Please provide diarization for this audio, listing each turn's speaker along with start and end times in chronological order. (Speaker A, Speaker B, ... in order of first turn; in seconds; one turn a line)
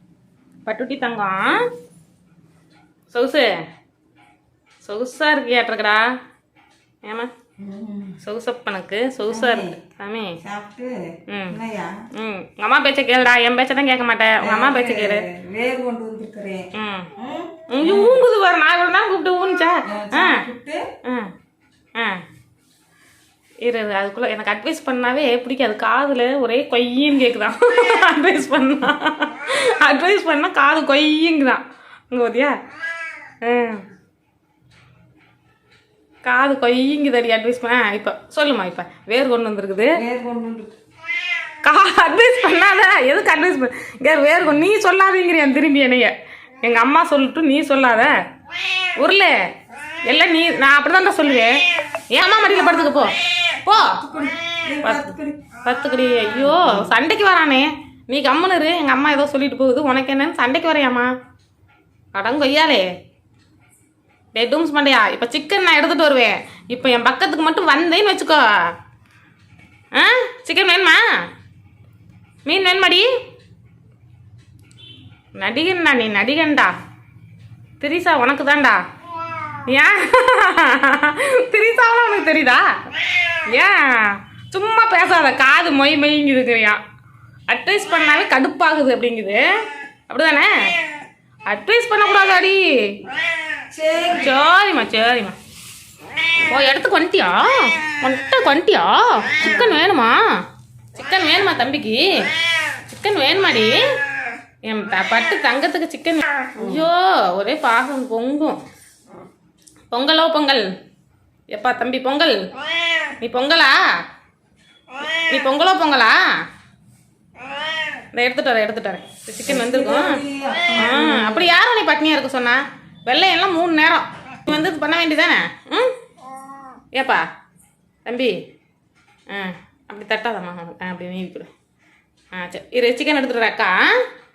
Speaker A: 0.6-1.6
Speaker A: 3.1-3.5
Speaker A: 4.8-6.0
Speaker A: 7.0-7.3
Speaker B: 7.6-8.2
Speaker A: 8.2-10.4
Speaker B: 9.3-9.7
Speaker B: 10.4-12.0
Speaker A: 11.3-11.6
Speaker A: 12.1-15.2
Speaker B: 14.4-18.2
Speaker A: 16.7-17.1
Speaker A: 17.7-20.4
Speaker B: 19.9-20.8
Speaker A: 21.0-21.3
Speaker A: 21.9-22.2
Speaker A: 23.6-32.5
Speaker A: 33.4-33.8
Speaker A: 36.2-40.0
Speaker B: 40.0-40.7
Speaker A: 41.6-48.2
Speaker A: 49.0-49.3
Speaker A: 50.0-54.0
Speaker B: 53.8-55.5
Speaker A: 54.8-61.1
Speaker B: 56.4-56.9
Speaker A: 62.1-62.9
Speaker A: 64.3-68.4
Speaker A: 69.9-71.0
Speaker A: 72.5-73.1
Speaker A: 75.4-76.7
Speaker A: 77.8-78.8
Speaker A: 79.7-86.8
Speaker A: 87.5-90.7
Speaker A: 91.5-92.6
Speaker B: 93.7-94.3
Speaker A: 94.1-95.4
Speaker A: 96.4-100.2
Speaker B: 99.4-99.8
Speaker A: 100.9-102.1
Speaker A: 102.9-103.7
Speaker A: 104.6-108.6
Speaker B: 106.6-106.9
Speaker A: 109.9-110.6
Speaker A: 111.5-112.4
Speaker A: 113.2-113.7
Speaker A: 115.0-116.2
Speaker A: 118.1-120.2
Speaker B: 119.5-121.5
Speaker A: 120.7-126.0
Speaker A: 126.9-127.2
Speaker A: 128.1-128.4
Speaker A: 129.3-131.5
Speaker A: 132.3-134.0